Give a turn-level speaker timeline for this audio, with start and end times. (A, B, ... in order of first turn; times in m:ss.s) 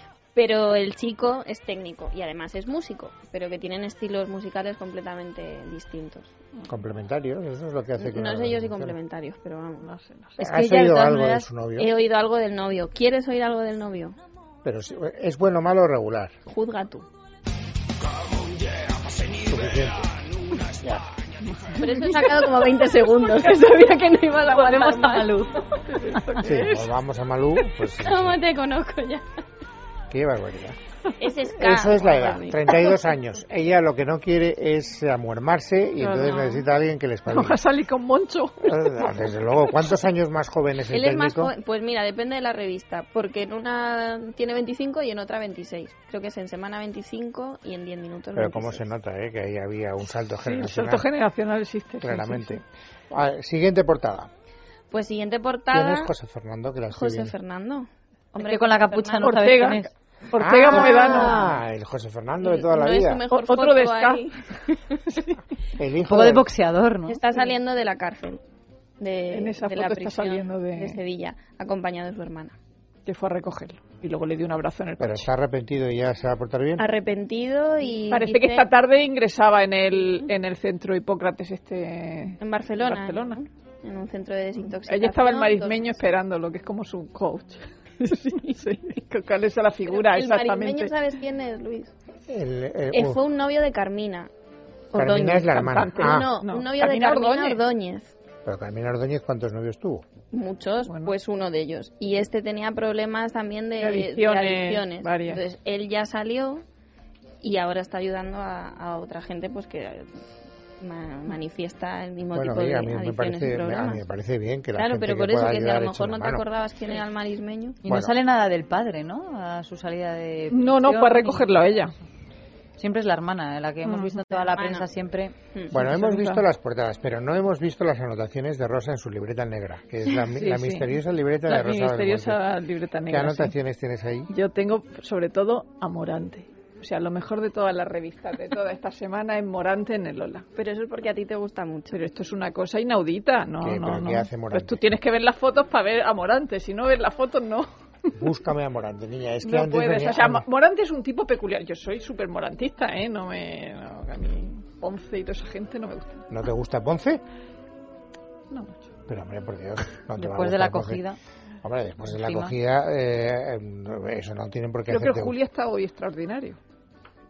0:00.4-0:06.3 A
0:06.7-0:09.0 B
0:08.0-0:09.9 A
0:09.8-0:10.4 C
0:10.4-0:11.5 D
0:10.4-0:11.9 B
0:11.8-0:14.2 A
0:14.6-0:16.4 B
0:16.5-0:17.1 A
0:19.3-0:20.1 B
0:20.6-0:21.0 B
0:21.5-0:22.4 C
0:21.8-0:25.3 A
0:24.5-0:25.6 D
0:25.8-0:26.9 C
0:26.4-0:28.4 B
0:28.0-0:29.2 A
0:30.1-0:30.8 B
0:31.2-0:32.9 A
0:31.6-0:37.6 B
0:36.0-0:36.7 C
0:37.3-0:39.8 C
0:38.6-0:41.5 B
0:40.9-0:48.8 A
0:48.4-0:51.1 B
0:50.4-0:52.6 C
0:52.0-0:54.3 B
0:54.9-0:56.1 A
0:55.7-0:57.4 B
0:56.9-0:59.5 A
0:58.4-0:59.9 D
0:59.2-1:01.4 C
1:00.4-1:03.2 B
1:00.7-1:01.4 A
1:01.0-1:01.6 D
1:02.4-1:05.2 A
1:03.3-1:04.2 C
1:05.8-1:06.5 B
1:06.0-1:07.2 D
1:07.1-1:08.4 A
1:09.0-1:12.6 A
1:09.3-1:11.0 C
1:13.1-1:15.3 C
1:15.0-1:16.8 B
1:16.8-1:18.7 A
1:18.1-1:23.4 C
1:22.4-1:26.0 A
1:24.9-1:30.9 C
1:28.0-1:28.5 A
1:29.9-1:31.9 A
1:32.3-1:33.2 B
1:32.9-1:34.3 A
1:34.9-1:38.1 A
1:34.9-1:36.3 B
1:35.5-1:37.6 C
1:38.4-1:40.0 B
1:40.3-1:46.6 A
1:40.9-1:41.2 C
1:43.8-1:45.4 C
1:47.4-1:50.1 A
1:50.8-1:54.0 A
1:52.3-1:56.4 B
1:54.8-1:57.8 A
1:57.8-2:01.5 D
1:57.9-1:58.2 B
2:00.5-2:01.9 C
2:02.8-2:05.4 D
2:03.8-2:04.3 C
2:04.6-2:04.9 A
2:05.7-2:06.4 C
2:05.7-2:12.4 B
2:10.4-2:10.9 C
2:11.5-2:13.5 C
2:13.1-2:14.3 B
2:14.3-2:20.5 C
2:20.6-2:22.0 A
2:21.9-2:27.7 C
2:23.6-2:24.8 B
2:28.2-2:30.4 B
2:29.4-2:36.2 C
2:36.3-2:37.2 B
2:38.5-2:38.9 C
2:39.1-2:41.0 B
2:40.2-2:41.2 D
2:41.6-2:45.4 B
2:42.0-2:42.5 D
2:44.9-2:46.6 C